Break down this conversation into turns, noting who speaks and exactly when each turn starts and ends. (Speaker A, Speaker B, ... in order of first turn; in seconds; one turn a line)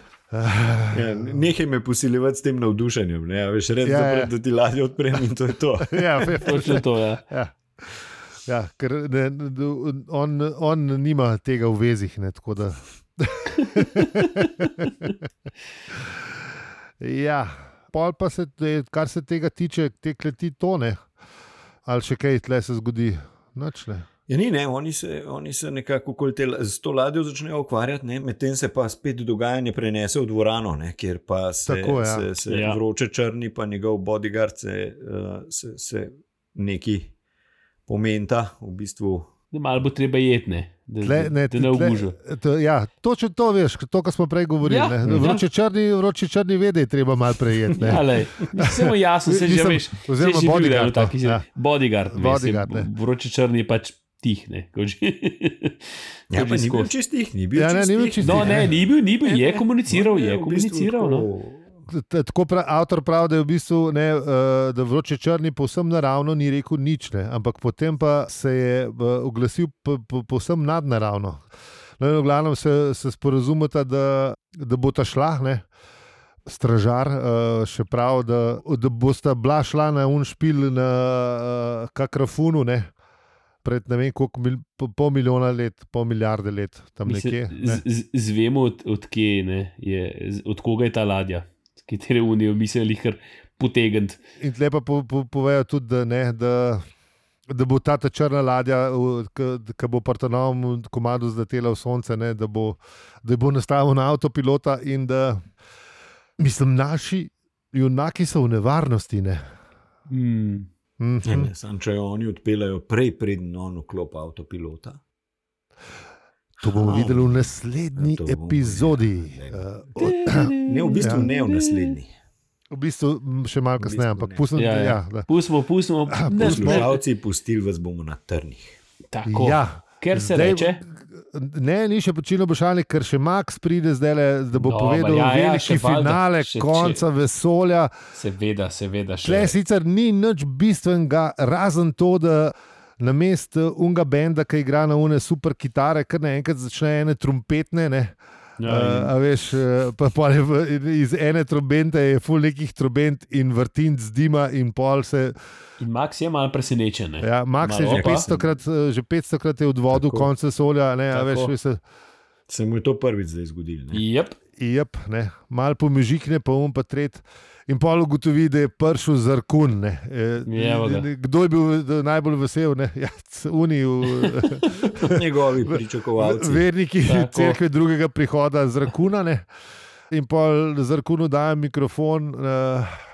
Speaker A: 0.3-1.4
Speaker B: 0.9-6.5
Speaker A: 3.8-4.3
Speaker A: 5.9-15.1
Speaker C: 6.4-7.2
Speaker C: 13.8-14.4
Speaker A: 15.9-16.2
Speaker A: 17.0-21.0
Speaker A: 21.9-24.1
Speaker B: 24.3-37.1
Speaker A: 31.6-32.2
Speaker C: 32.5-32.8
Speaker B: 37.9-39.3
Speaker C: 39.5-42.1
Speaker A: 41.0-51.5
Speaker C: 44.6-45.4
Speaker C: 47.8-56.9
Speaker A: 52.1-52.9
Speaker B: 56.3-61.8
Speaker A: 57.5-58.7
Speaker C: 58.2-61.3
Speaker A: 61.9-71.4
Speaker A: 72.0-75.6
Speaker A: 76.5-82.9
Speaker A: 83.6-87.8
Speaker C: 87.1-94.2
Speaker A: 94.4-96.8
Speaker A: 97.5-105.4
Speaker A: 106.4-109.4
Speaker C: 110.1-110.7
Speaker A: 111.0-111.5
Speaker B: 111.2-115.0
Speaker A: 116.6-121.2
Speaker B: 116.6-119.6
Speaker C: 120.0-122.0
Speaker B: 120.4-122.1
Speaker A: 122.7-125.3
Speaker B: 123.8-124.5
Speaker C: 124.6-127.0
Speaker A: 126.1-126.9
Speaker B: 126.3-128.8
Speaker C: 129.1-130.8
Speaker A: 129.2-137.9
Speaker C: 134.6-137.0
Speaker C: 138.1-139.6
Speaker A: 139.2-155.3
Speaker C: 148.6-149.1
Speaker C: 155.8-158.3
Speaker A: 157.2-161.8
Speaker B: 157.9-158.5
Speaker B: 159.9-160.3
Speaker C: 161.1-161.5
Speaker B: 162.5-164.0
Speaker C: 163.9-164.4
Speaker A: 164.6-179.5
Speaker C: 170.5-171.1
Speaker C: 174.1-175.1
Speaker B: 174.9-176.7
Speaker C: 177.1-177.6
Speaker A: 180.1-183.0